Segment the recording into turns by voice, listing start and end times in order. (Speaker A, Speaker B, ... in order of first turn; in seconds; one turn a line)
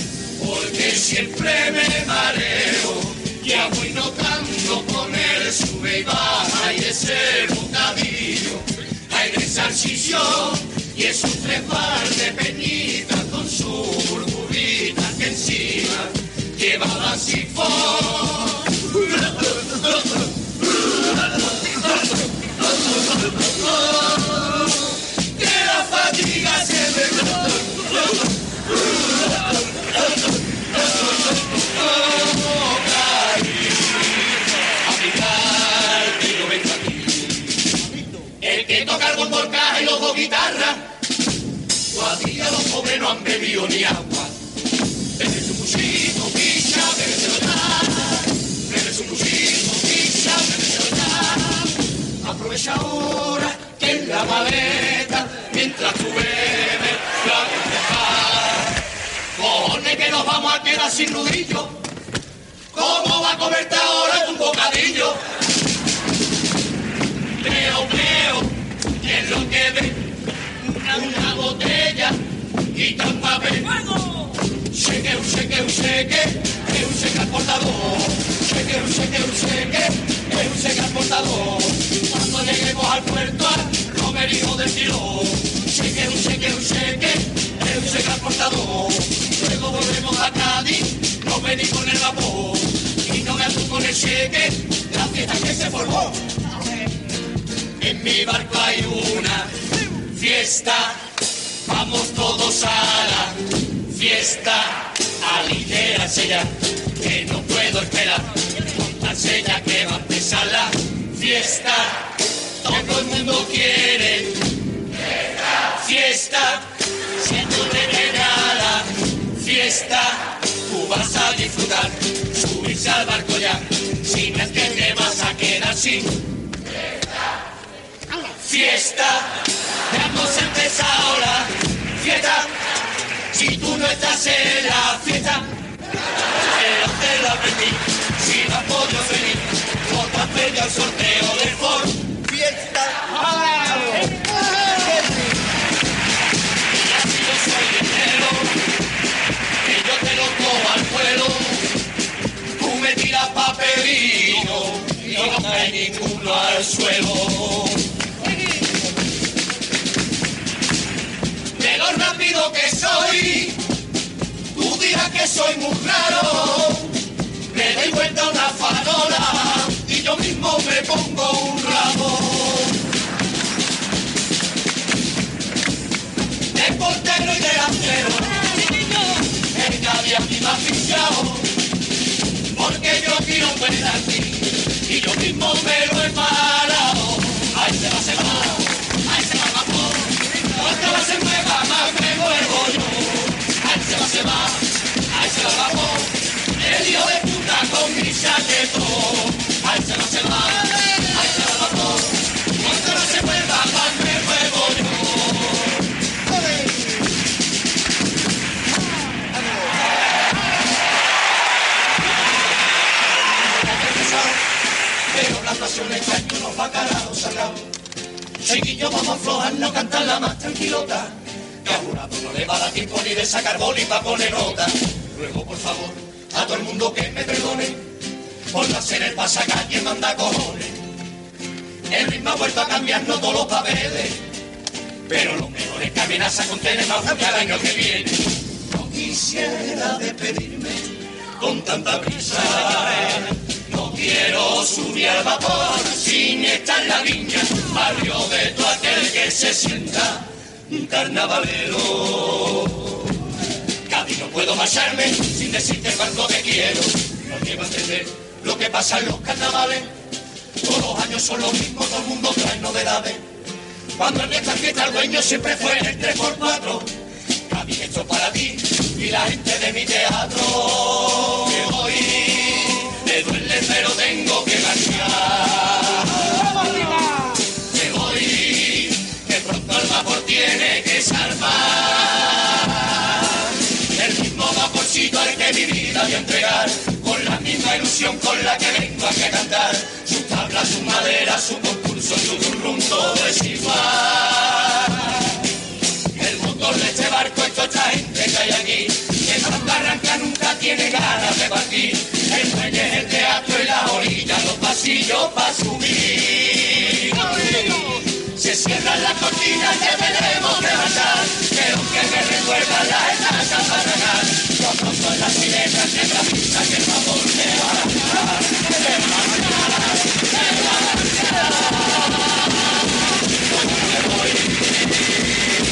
Speaker A: 0.4-20.2
Speaker A: 20.7-22.1
Speaker A: 22.6-37.6
Speaker A: 38.4-40.8
Speaker A: 41.9-44.3
Speaker A: 45.2-58.7
Speaker A: 59.4-61.8
Speaker A: 62.7-65.2
Speaker A: 67.4-70.1
Speaker A: 70.7-72.2
Speaker A: 72.7-73.9
Speaker A: 74.7-96.3
Speaker A: 97.8-99.5
Speaker A: 100.1-101.1
Speaker A: 101.7-112.1
Speaker A: 112.6-114.5
Speaker A: 115.5-126.2
Speaker A: 128.3-132.5
Speaker A: 133.3-135.4
Speaker A: 136.4-144.1
Speaker A: 146.7-148.7
Speaker A: 149.6-151.8
Speaker A: 152.6-157.8
Speaker A: 161.6-163.7
Speaker A: 164.5-167.0
Speaker A: 167.5-172.8
Speaker A: 176.5-181.6
Speaker A: 182.5-205.8
Speaker A: 213.4-214.4
Speaker A: 215.1-217.7
Speaker A: 218.4-227.9
Speaker A: 228.5-230.8
Speaker A: 231.9-234.2
Speaker A: 235.1-253.0
Speaker A: 253.9-259.9
Speaker A: 260.6-263.3
Speaker A: 264.0-266.9
Speaker A: 267.5-276.9
Speaker A: 277.6-295.2
Speaker A: 296.1-322.4
Speaker A: 323.5-325.0